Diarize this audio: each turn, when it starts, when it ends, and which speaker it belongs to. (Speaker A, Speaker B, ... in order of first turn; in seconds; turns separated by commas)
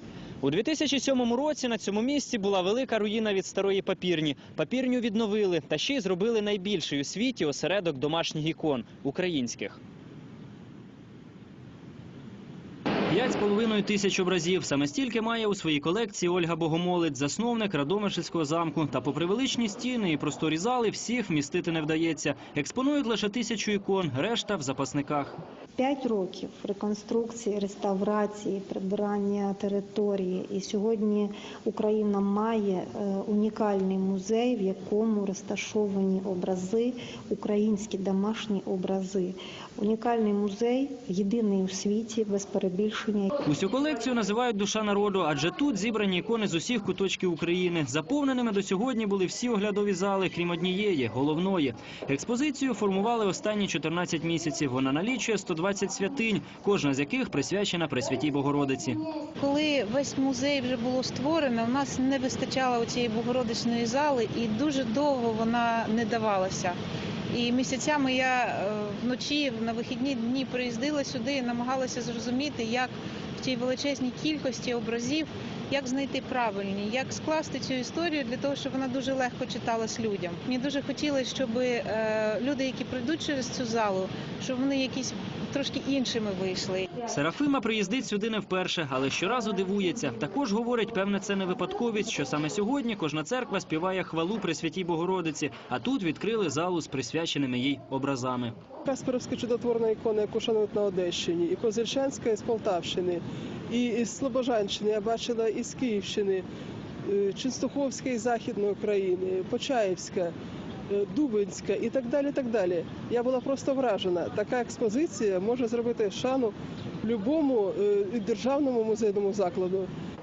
Speaker A: 0.4-9.8, Speaker A: 13.1-25.4, Speaker B: 25.8-43.3, Speaker A: 43.5-59.0, Speaker C: 59.4-66.8, Speaker C: 67.3-87.0, Speaker A: 87.0-98.5, Speaker D: 98.8-106.4, Speaker D: 107.0-110.3, Speaker D: 110.9-119.9